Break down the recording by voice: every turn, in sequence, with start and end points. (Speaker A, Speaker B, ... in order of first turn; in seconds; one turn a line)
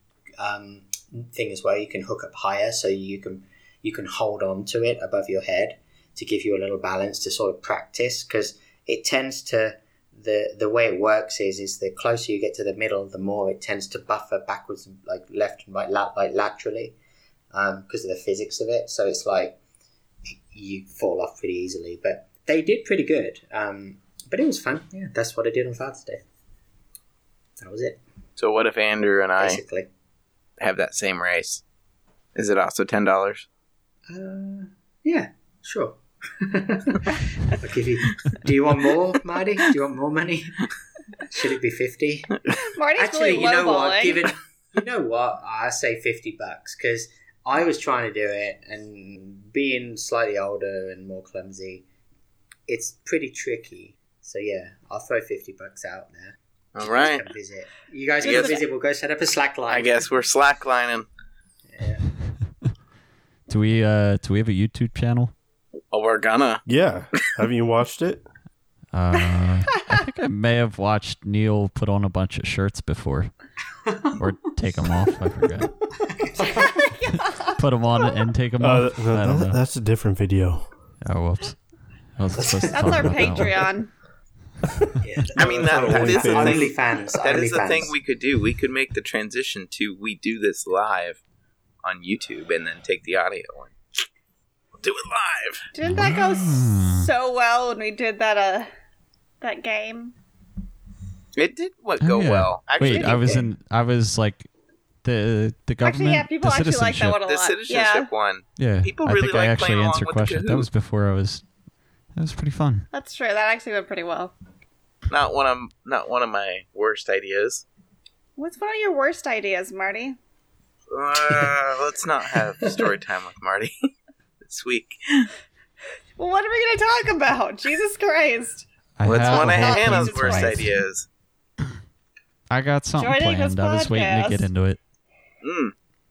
Speaker A: 0.4-16.9
Speaker A: 17.5-19.6
Speaker A: 20.5-26.2
Speaker A: 27.6-28.0
Speaker B: 28.4-29.6
Speaker A: 29.4-29.9
Speaker B: 30.6-31.6
Speaker B: 32.3-33.5
Speaker A: 34.1-40.7
Speaker A: 41.2-42.4
Speaker C: 42.6-44.2
Speaker A: 42.9-51.8
Speaker A: 52.7-60.0
Speaker B: 56.8-57.2
Speaker B: 58.2-58.6
Speaker C: 58.2-58.5
Speaker B: 59.7-61.1
Speaker A: 61.7-62.0
Speaker D: 63.5-65.3
Speaker B: 65.9-67.2
Speaker E: 66.7-68.2
Speaker D: 68.9-73.3
Speaker A: 73.9-74.2
Speaker D: 74.2-75.9
Speaker A: 76.1-76.7
Speaker C: 76.6-78.1
Speaker D: 77.3-79.6
Speaker E: 78.6-80.7
Speaker D: 81.0-83.7
Speaker A: 82.4-83.4
Speaker C: 82.7-83.9
Speaker A: 85.0-87.9
Speaker B: 85.4-91.2
Speaker E: 85.4-86.7
Speaker B: 91.8-93.8
Speaker B: 94.8-95.7
Speaker C: 95.7-98.7
Speaker D: 95.8-97.1
Speaker C: 99.4-100.1
Speaker B: 101.3-103.4
Speaker D: 102.0-104.5
Speaker C: 102.8-103.5
Speaker D: 105.0-107.2
Speaker C: 105.8-108.1
Speaker B: 107.2-110.7
Speaker D: 108.6-111.5
Speaker D: 112.1-112.9
Speaker C: 112.9-114.3
Speaker B: 115.1-117.6
Speaker C: 118.4-120.2
Speaker B: 120.9-123.9
Speaker B: 124.4-125.3
Speaker C: 126.2-130.7
Speaker D: 129.0-130.7
Speaker B: 129.0-131.1
Speaker D: 132.5-134.8
Speaker C: 133.0-134.4
Speaker B: 135.4-135.7